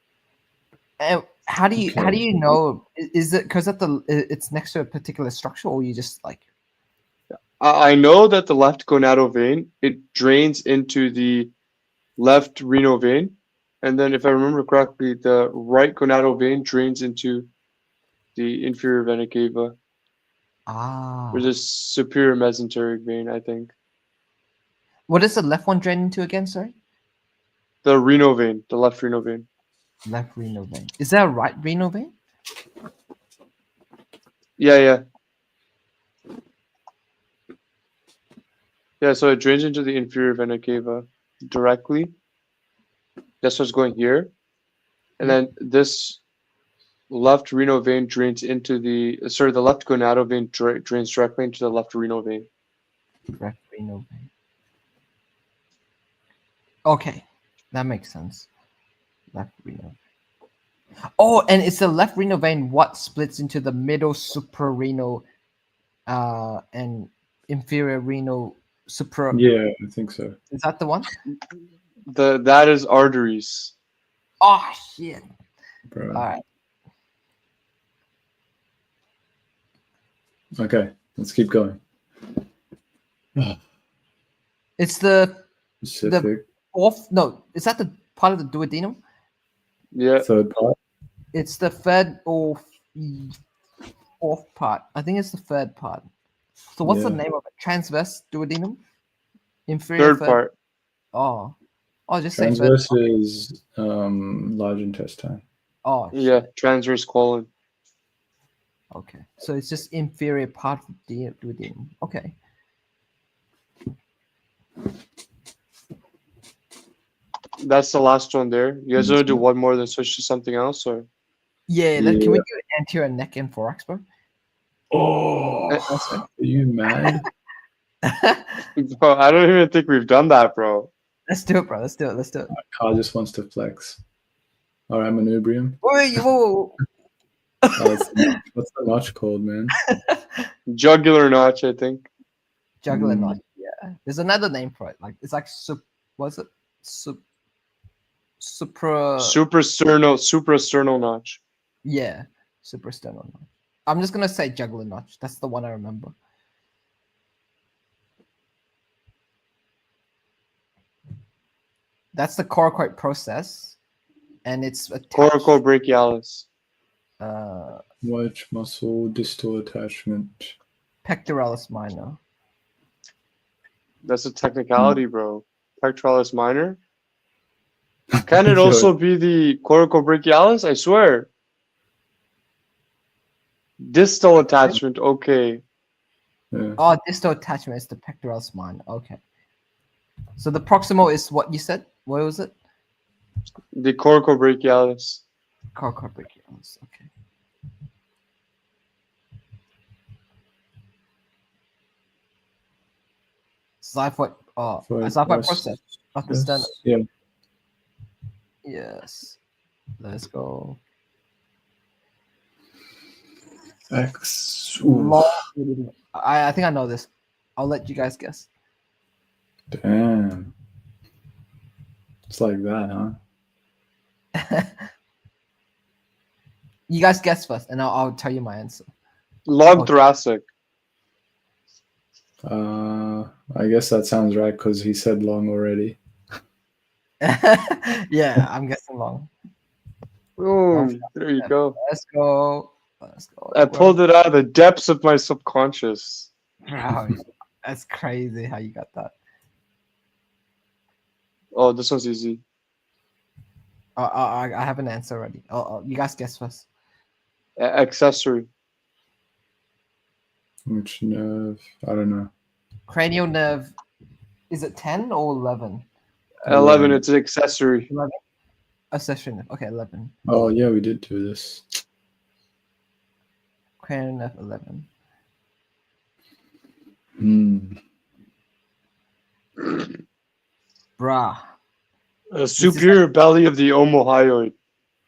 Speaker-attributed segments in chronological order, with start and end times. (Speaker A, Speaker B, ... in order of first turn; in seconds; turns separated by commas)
Speaker A: 1.0-6.4, Speaker B: 1.8-2.6, Speaker C: 7.6-11.5, Speaker C: 12.2-17.5, Speaker C: 18.4-19.8, Speaker A: 20.7-21.5, Speaker C: 21.3-23.7, Speaker A: 25.1-26.7, Speaker C: 27.8-29.5, Speaker A: 30.1-32.1, Speaker C: 34.6-35.0, Speaker C: 39.0-42.1, Speaker C: 43.4-44.3, Speaker C: 45.2-46.2, Speaker C: 47.1-52.5, Speaker A: 53.3-54.3, Speaker A: 56.9-58.5, Speaker A: 59.3-60.0, Speaker A: 61.2-65.2, Speaker A: 66.1-69.4, Speaker B: 69.3-70.4, Speaker A: 70.5-71.1, Speaker C: 72.1-73.7, Speaker A: 74.4-75.2, Speaker B: 75.9-76.3, Speaker A: 76.1-76.4, Speaker B: 80.6-81.8, Speaker A: 84.8-85.4, Speaker B: 85.8-86.5, Speaker A: 86.0-89.0, Speaker C: 89.9-90.3, Speaker B: 90.2-90.8, Speaker A: 91.3-93.3, Speaker A: 94.2-96.1, Speaker A: 96.7-98.8, Speaker B: 96.8-97.2, Speaker A: 99.7-100.4, Speaker C: 100.0-100.5, Speaker A: 101.1-101.5, Speaker A: 102.1-103.0, Speaker B: 102.3-105.4, Speaker A: 105.8-106.5, Speaker C: 106.1-107.5, Speaker A: 108.9-112.3, Speaker C: 117.6-121.1, Speaker B: 119.0-119.4, Speaker A: 121.7-124.0, Speaker B: 122.0-122.4, Speaker B: 124.9-125.8, Speaker A: 125.8-126.3, Speaker B: 126.4-127.3, Speaker A: 128.1-128.7, Speaker C: 128.8-130.9, Speaker A: 131.3-132.5, Speaker B: 132.5-134.0, Speaker B: 134.9-135.9, Speaker A: 135.8-136.8, Speaker A: 137.6-138.2, Speaker B: 137.8-139.8, Speaker C: 140.7-142.1, Speaker A: 142.8-147.2, Speaker B: 142.9-143.4, Speaker A: 148.4-149.4, Speaker C: 149.2-151.4, Speaker A: 151.8-156.1, Speaker A: 162.1-163.8, Speaker A: 164.4-165.5, Speaker C: 165.2-166.5, Speaker A: 167.2-167.8, Speaker B: 168.0-170.5, Speaker A: 171.1-172.2, Speaker C: 174.0-176.8, Speaker B: 178.2-178.9, Speaker C: 178.3-181.3, Speaker C: 183.8-185.6, Speaker B: 186.5-186.8, Speaker A: 186.8-189.2, Speaker A: 190.4-192.5, Speaker C: 193.7-195.2, Speaker A: 195.8-197.1, Speaker A: 203.8-206.7, Speaker B: 204.9-205.7, Speaker B: 206.3-207.0, Speaker A: 208.6-209.4, Speaker A: 210.0-210.8, Speaker B: 213.9-215.3, Speaker A: 214.9-218.5, Speaker B: 219.7-220.5, Speaker B: 222.3-223.1, Speaker A: 224.4-224.7, Speaker A: 226.9-228.9, Speaker C: 229.5-230.4, Speaker B: 232.4-236.0, Speaker A: 237.2-239.3, Speaker C: 240.4-241.8, Speaker A: 240.7-244.0, Speaker C: 243.5-246.3, Speaker A: 246.7-249.1, Speaker C: 251.5-252.4, Speaker A: 254.0-256.6, Speaker C: 257.6-258.5, Speaker B: 260.7-262.3, Speaker A: 262.9-263.7, Speaker A: 264.5-265.9, Speaker C: 266.4-267.9, Speaker B: 266.5-267.0, Speaker A: 267.9-268.2, Speaker A: 268.9-270.1, Speaker B: 270.3-271.7, Speaker A: 273.8-274.9, Speaker B: 277.2-277.8, Speaker A: 281.0-281.4, Speaker C: 282.3-284.6, Speaker A: 282.6-283.0